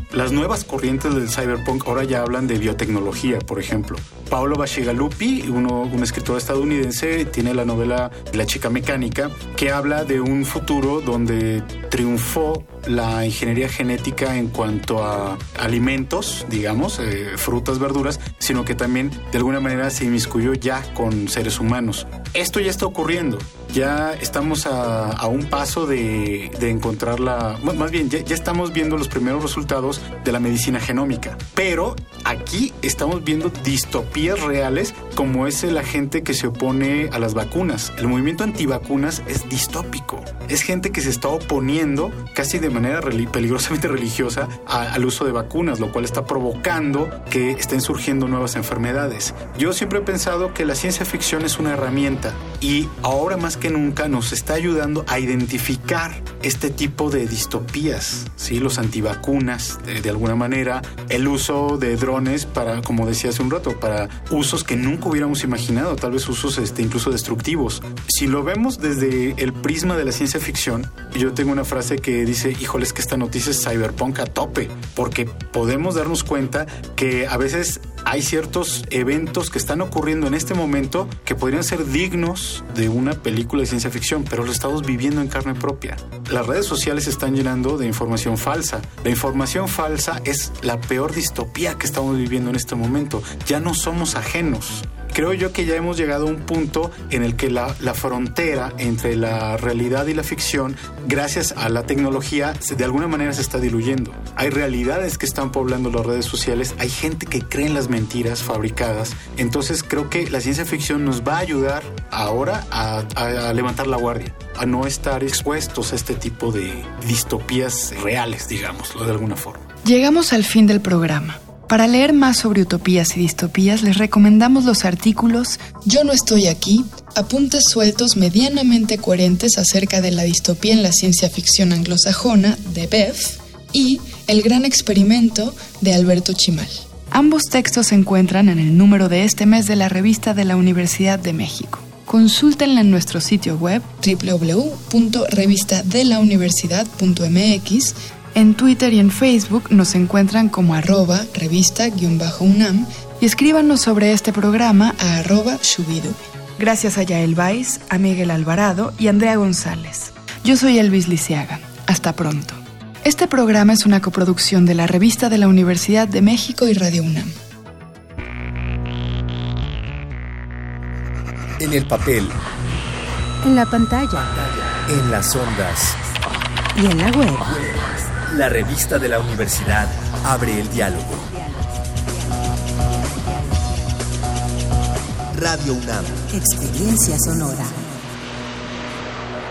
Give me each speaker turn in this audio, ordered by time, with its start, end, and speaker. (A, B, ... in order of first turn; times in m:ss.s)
0:00.1-1:59.6 A
1:59.8-2:47.3 B
2:51.6-2:52.4 C
2:53.4-2:54.3 D
2:54.4-2:56.0 C
2:56.7-2:57.5 D
2:57.5-3:01.4 C
3:05.3-3:06.4 C
3:06.3-3:08.1 D